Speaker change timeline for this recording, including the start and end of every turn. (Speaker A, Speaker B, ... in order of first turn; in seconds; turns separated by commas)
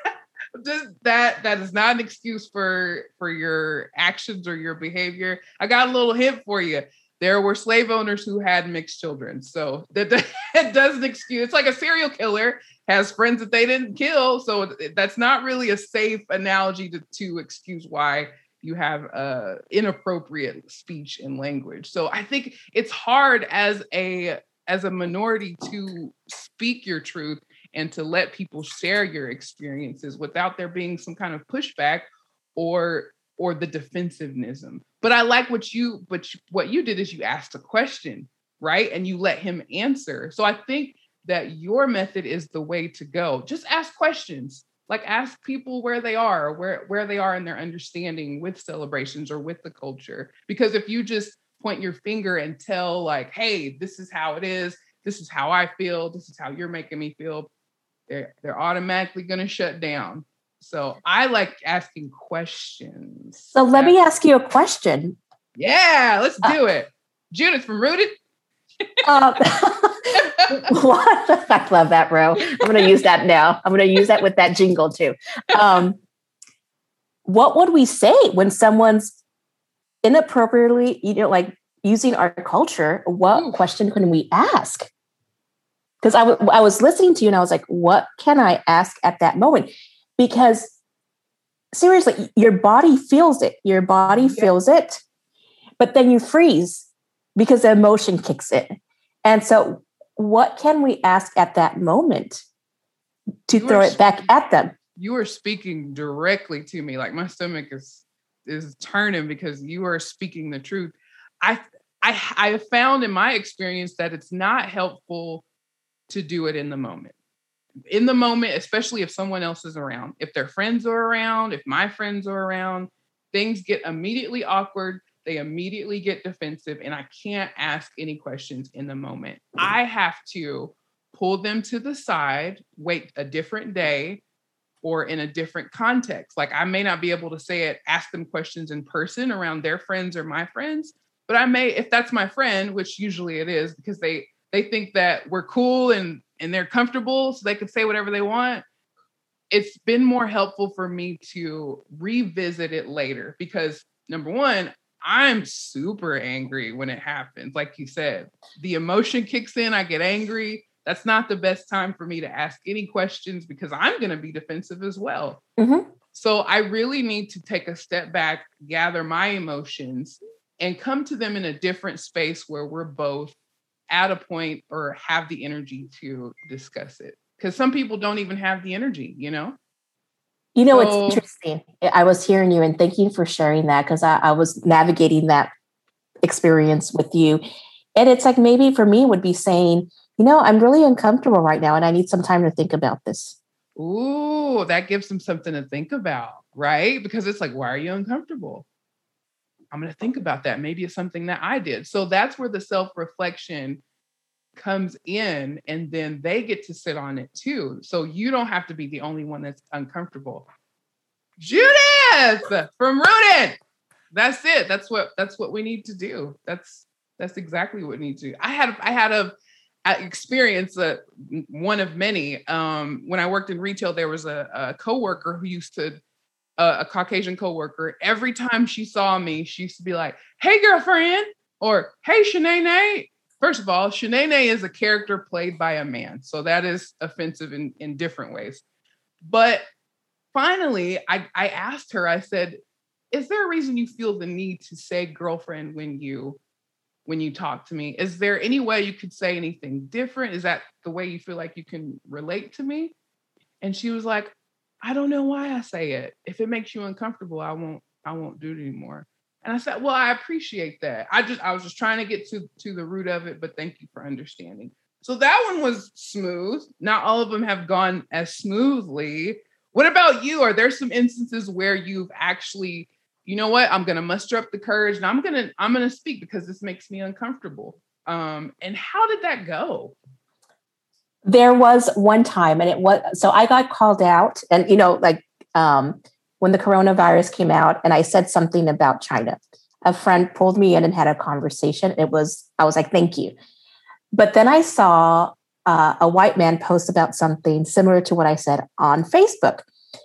Speaker A: 0.6-57.5, Speaker A: 58.1-64.0, Speaker B: 63.5-65.2, Speaker A: 65.6-68.1, Speaker B: 69.0-76.0, Speaker A: 72.4-73.0, Speaker B: 77.2-79.2, Speaker B: 80.0-84.9, Speaker A: 83.3-83.6, Speaker B: 86.0-90.8, Speaker B: 91.7-95.0, Speaker A: 94.1-94.5, Speaker B: 95.8-98.7, Speaker B: 99.2-102.4, Speaker B: 103.5-104.7, Speaker A: 103.5-104.3, Speaker A: 105.0-115.5, Speaker A: 116.1-117.1, Speaker A: 117.9-134.2, Speaker A: 134.8-148.6, Speaker A: 149.5-165.4, Speaker B: 165.6-165.9, Speaker A: 166.1-173.3, Speaker A: 173.9-179.6, Speaker B: 180.5-185.5, Speaker A: 180.7-181.2, Speaker B: 186.2-187.4, Speaker B: 187.9-193.4, Speaker A: 193.8-198.7, Speaker A: 199.7-203.8, Speaker A: 204.5-210.5, Speaker A: 211.4-213.6, Speaker A: 214.1-219.3, Speaker A: 219.8-226.0, Speaker A: 226.6-238.6, Speaker A: 239.2-239.6, Speaker A: 240.3-242.6, Speaker A: 243.1-246.4, Speaker A: 247.1-252.9, Speaker A: 253.6-279.9, Speaker B: 281.2-293.3, Speaker B: 294.1-299.6